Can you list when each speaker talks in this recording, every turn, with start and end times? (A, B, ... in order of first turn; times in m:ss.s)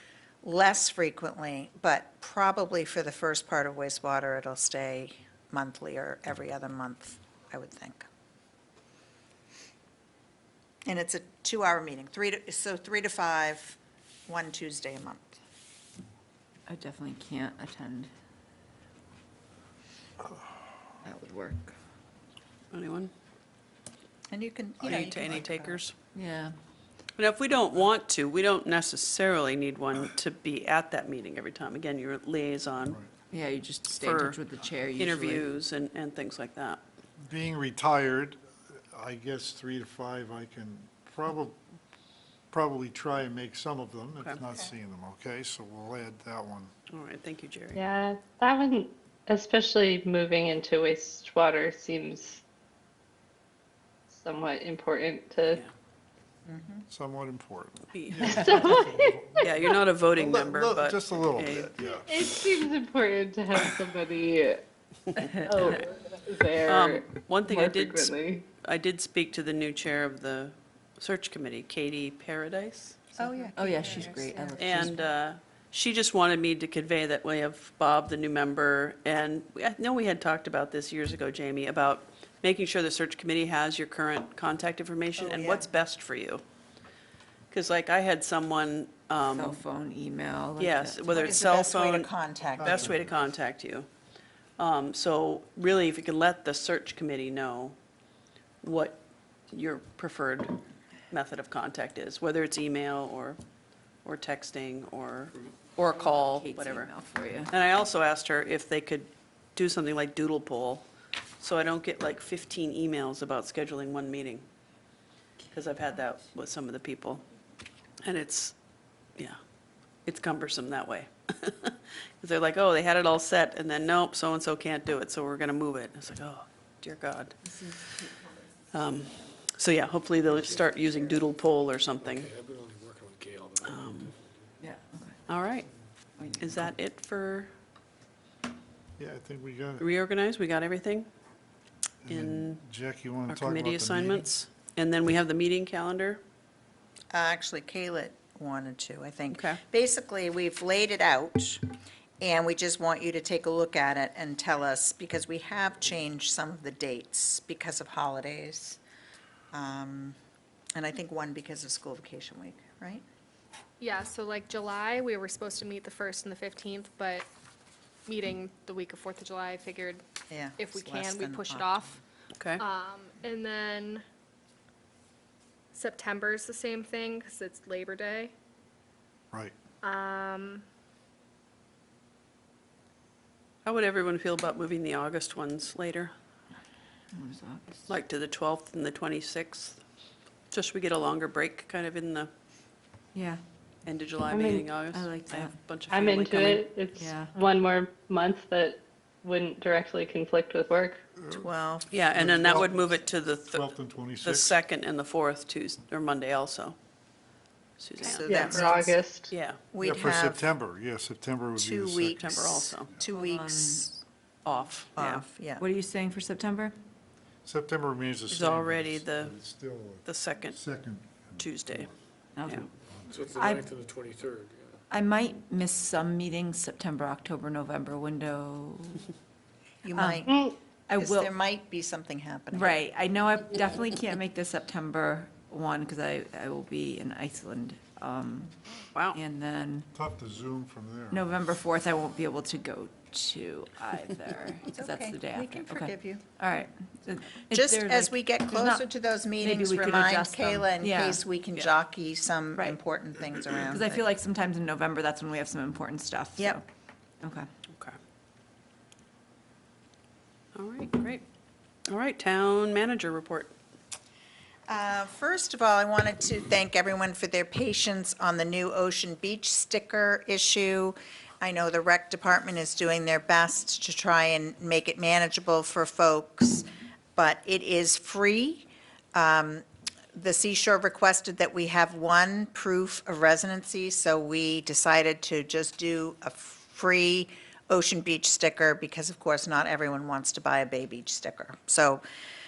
0:00.4-0:08.1 A
0:10.9-0:15.4 A
0:16.7-0:18.1 B
0:21.0-0:21.7 B
0:22.7-0:23.1 C
0:24.3-0:25.8 A
0:24.8-0:25.9 C
0:26.1-0:26.5 B
0:27.2-0:33.0 C
0:33.3-0:35.5 B
0:33.9-0:34.4 C
0:35.0-0:36.8 C
0:37.2-0:38.4 D
0:38.9-0:41.6 D
0:42.5-0:46.7 D
0:44.5-0:44.7 A
0:46.9-0:47.8 C
0:47.8-0:52.4 E
0:54.1-0:55.6 E
0:56.5-0:56.8 A
0:56.9-0:59.5 D
0:57.9-0:58.6 C
0:58.2-0:59.2 E
0:59.4-1:01.8 C
1:00.2-1:02.3 D
1:02.0-1:04.6 E
1:05.4-1:08.4 E
1:05.5-1:05.8 C
1:06.6-1:13.0 C
1:13.2-1:14.7 A
1:13.5-1:15.0 B
1:14.6-1:26.4 C
1:25.2-1:25.7 A
1:27.5-1:29.6 C
1:29.3-1:31.3 B
1:30.6-1:33.9 C
1:31.1-1:33.0 A
1:32.6-1:33.2 D
1:34.6-1:37.8 C
1:38.6-1:39.0 C
1:39.5-1:40.6 C
1:41.1-1:43.4 C
1:44.0-1:46.9 C
1:45.9-1:47.5 B
1:47.5-1:50.9 C
1:51.4-1:54.4 C
1:55.5-1:57.2 C
1:58.0-1:58.5 C
2:00.0-2:08.0 C
2:07.6-2:08.1 B
2:08.7-2:12.3 C
2:10.3-2:11.2 F
2:12.0-2:14.2 F
2:13.6-2:14.1 C
2:14.6-2:15.2 B
2:15.3-2:15.7 C
2:16.2-2:16.7 B
2:16.4-2:17.5 C
2:19.0-2:19.9 D
2:19.8-2:21.1 C
2:22.0-2:24.3 D
2:22.1-2:22.6 C
2:23.3-2:26.2 C
2:27.1-2:31.6 A
2:29.3-2:29.6 C
2:32.2-2:38.8 A
2:39.5-2:40.2 A
2:40.8-2:43.0 A
2:43.8-2:47.3 G
2:48.1-2:50.0 G
2:50.3-2:52.0 A
2:50.6-2:52.0 G
2:52.4-2:52.6 C
2:52.6-2:54.0 G
2:55.7-2:58.3 G
2:59.3-2:59.6 D
2:59.8-3:00.6 G
3:03.6-3:06.1 C
3:07.1-3:07.9 B
3:07.9-3:09.8 C
3:10.5-3:12.3 C
3:13.1-3:13.4 B
3:13.9-3:16.7 C
3:14.3-3:14.6 E
3:14.9-3:15.5 B
3:15.9-3:21.0 E
3:17.0-3:17.3 B
3:21.2-3:21.5 D
3:21.3-3:21.9 A
3:21.9-3:26.8 C
3:22.1-3:22.9 D
3:23.5-3:24.6 D
3:27.8-3:28.6 C
3:28.0-3:29.0 A
3:28.2-3:29.3 E
3:29.3-3:29.6 C
3:29.7-3:30.4 A
3:29.8-3:32.2 D
3:31.6-3:34.0 A
3:32.1-3:32.9 C
3:33.1-3:33.9 B
3:34.4-3:35.2 C
3:35.0-3:35.6 A
3:35.6-3:36.7 B
3:37.4-3:41.9 D
3:38.3-3:39.4 C
3:40.0-3:40.6 C
3:41.4-3:41.9 C
3:42.4-3:42.7 B
3:42.9-3:43.3 D
3:43.1-3:44.8 F
3:43.4-3:43.6 B
3:44.9-3:49.1 B
3:49.8-3:52.7 A
3:49.9-3:50.3 B
3:50.3-3:50.6 E
3:50.9-3:51.3 B
3:52.5-3:58.5 B
3:59.1-3:59.9 B
3:59.9-4:01.2 D
4:01.1-4:08.8 B
4:04.7-4:06.2 A
4:07.5-4:14.1 A
4:09.4-4:11.2 B
4:13.6-4:16.6 B
4:17.2-4:17.5 B
4:20.6-4:21.2 C
4:21.9-4:23.5 C
4:24.7-4:52.0 A